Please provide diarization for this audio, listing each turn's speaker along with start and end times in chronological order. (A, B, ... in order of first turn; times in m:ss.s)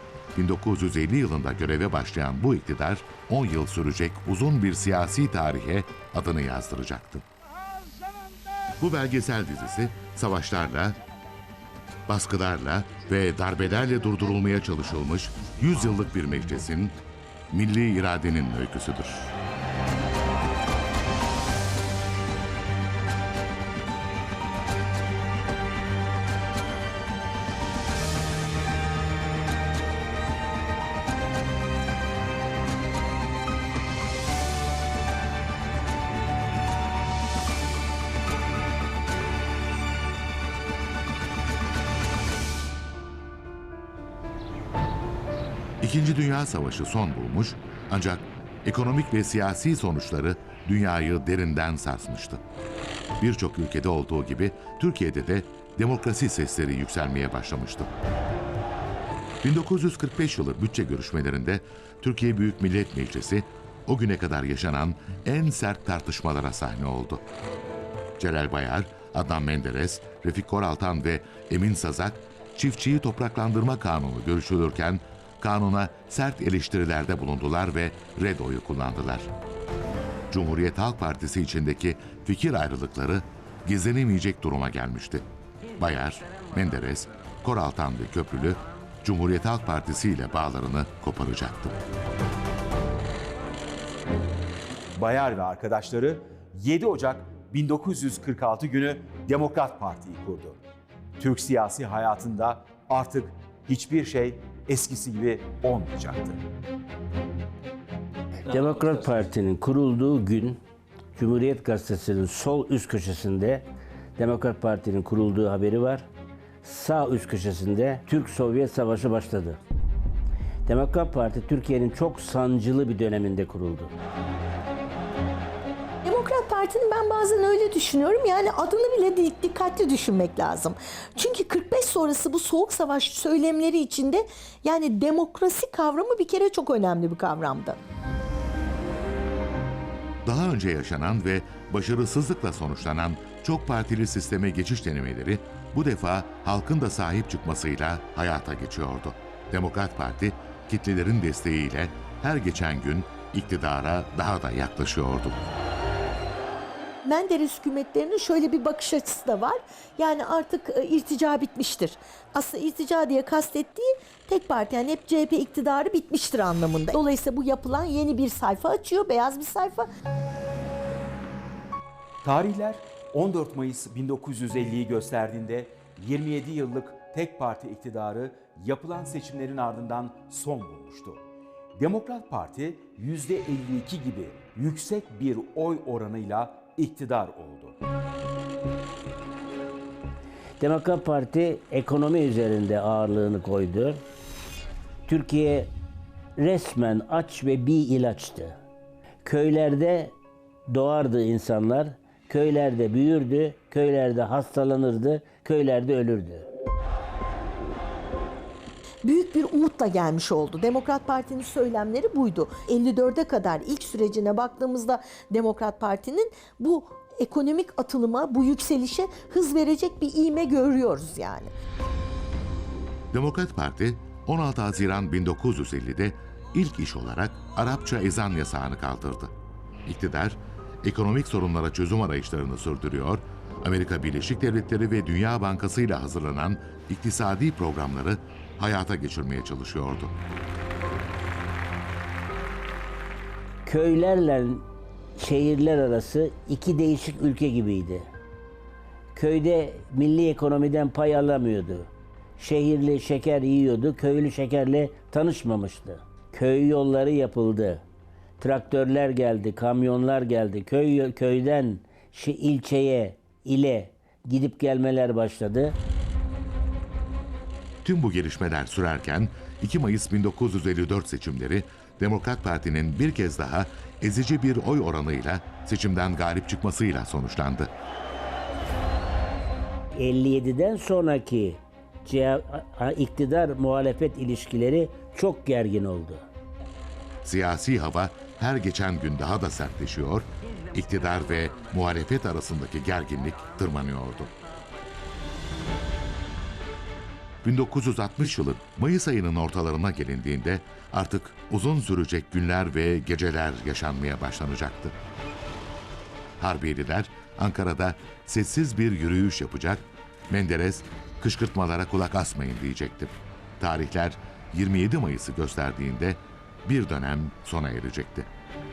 0:00.3-0:07.2 A
0:08.8-0:11.0 A
0:12.1-0:17.0 A
0:17.5-0:19.3 A
0:45.8-0:52.4 A
0:53.2-0:57.9 A
0:59.4-1:07.2 A
1:08.2-1:19.3 A
1:20.3-1:25.2 A
1:25.8-1:31.8 A
1:34.9-1:40.6 B
1:41.2-1:46.4 B
1:48.4-1:50.6 C
1:51.1-1:56.1 C
1:56.6-1:59.6 C
2:00.6-2:03.9 C
2:06.0-2:17.8 D
2:20.2-2:35.5 A
2:37.0-2:49.8 D
2:52.2-3:01.2 B
3:01.8-3:07.8 B
3:10.6-3:14.0 C
3:15.0-3:15.7 C
3:16.4-3:18.6 C
3:19.2-3:20.1 C
3:20.7-3:26.5 C
3:29.0-3:41.5 D
3:43.1-3:49.3 A
3:49.8-4:00.1 A
4:03.6-4:04.6 C
4:05.2-4:08.1 C
4:09.1-4:17.8 C
4:18.4-4:25.8 C
4:27.8-4:37.7 A
4:39.9-4:46.3 C
4:47.2-4:54.3 A
4:57.4-5:05.0 A
5:06.4-5:18.3 A